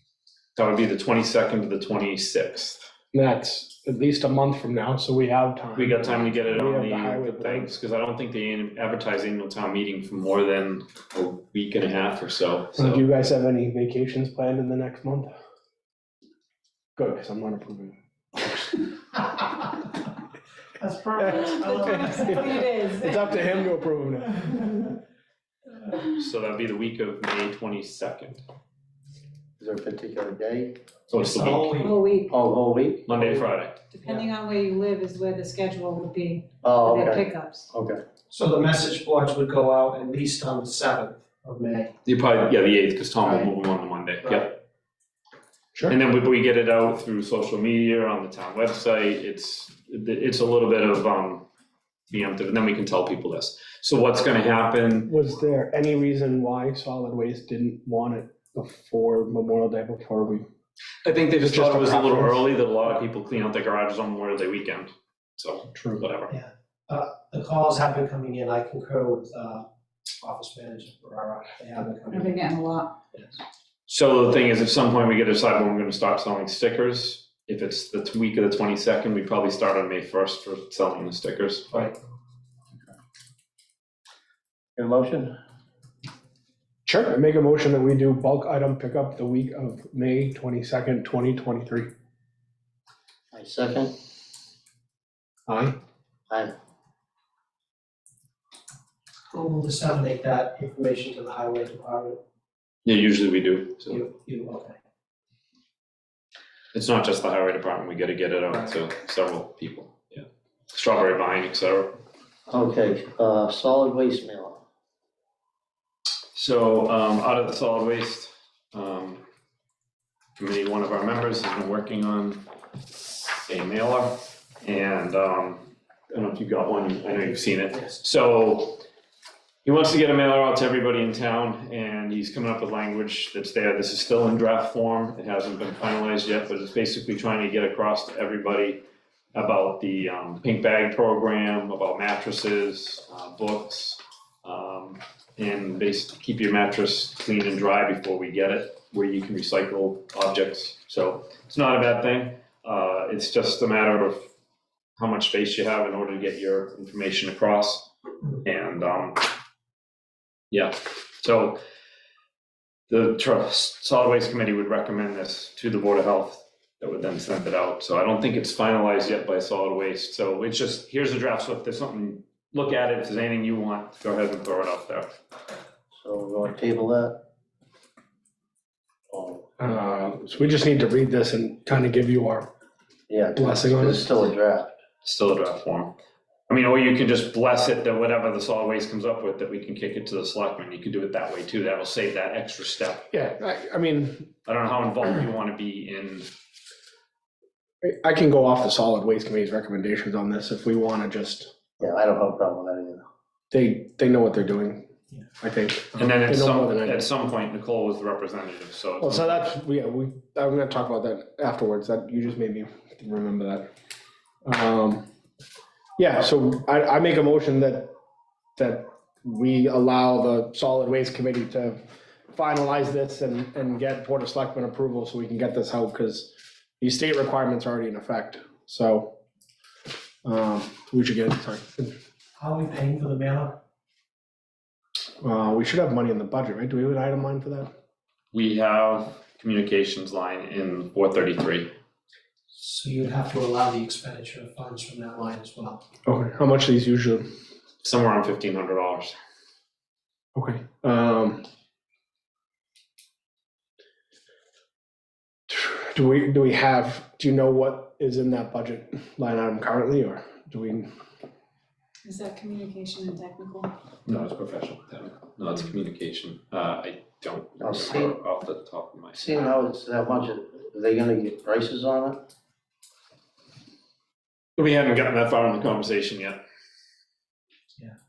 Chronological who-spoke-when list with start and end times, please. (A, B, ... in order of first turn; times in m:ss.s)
0:00.6-0:02.9 A
0:03.1-0:07.7 B
0:05.8-0:13.0 A
0:12.8-0:15.3 B
0:17.0-0:18.0 B
0:20.8-0:22.6 C
0:21.2-0:25.0 B
0:21.2-0:23.5 D
0:26.1-0:28.4 A
0:29.6-0:30.8 E
0:31.1-0:31.8 A
0:31.2-0:32.0 C
0:31.7-0:32.3 D
0:32.3-0:33.1 E
0:33.0-0:33.8 A
0:33.9-0:37.7 D
0:36.6-0:38.0 E
0:38.3-0:41.9 C
0:42.0-0:44.5 A
0:45.9-0:51.5 A
0:52.1-0:55.1 A
0:55.0-1:00.5 B
1:01.0-1:06.3 A
1:01.4-1:02.4 B
1:06.3-1:09.7 C
1:10.2-1:12.4 C
1:12.1-1:12.9 D
1:13.9-1:21.9 A
1:24.8-1:25.3 E
1:26.8-1:31.9 B
1:33.3-1:33.9 E
1:35.5-1:35.8 B
1:36.3-1:36.5 E
1:39.3-1:42.2 C
1:42.8-1:44.0 A
1:43.9-1:44.8 C
1:46.7-1:52.0 A
1:52.5-1:54.6 E
1:56.3-1:59.2 A
2:00.4-2:02.5 A
2:03.5-2:08.8 A
2:09.6-2:34.2 A
2:35.0-2:37.9 A
2:38.4-2:39.3 A
2:40.5-2:41.6 A
2:42.9-2:55.1 A
2:55.9-2:57.2 E
2:59.1-2:59.5 E
2:59.6-3:02.5 B
3:03.1-3:04.7 E
3:03.3-3:04.1 B
3:05.0-3:05.9 A
3:06.5-3:13.1 A
3:13.1-3:14.3 B
3:14.4-3:16.3 A
3:17.8-3:21.5 B
3:21.8-3:23.0 E
3:23.5-3:24.9 B
3:25.4-3:27.0 B
3:26.0-3:29.6 A
3:29.0-3:33.7 B
3:34.4-3:35.1 B
3:36.0-3:37.9 B
3:38.6-3:49.2 B
3:50.2-3:51.9 B
3:52.4-3:53.6 C
3:55.2-3:57.7 B
3:58.3-4:01.7 A
4:02.5-4:05.8 C
4:06.1-4:07.3 B
4:07.8-4:09.1 A
4:10.4-4:11.4 B
4:15.5-4:20.9 B
4:22.0-4:23.7 D
4:24.0-4:29.2 A
4:27.6-4:28.1 E
4:29.1-4:32.2 E
4:34.6-4:36.4 A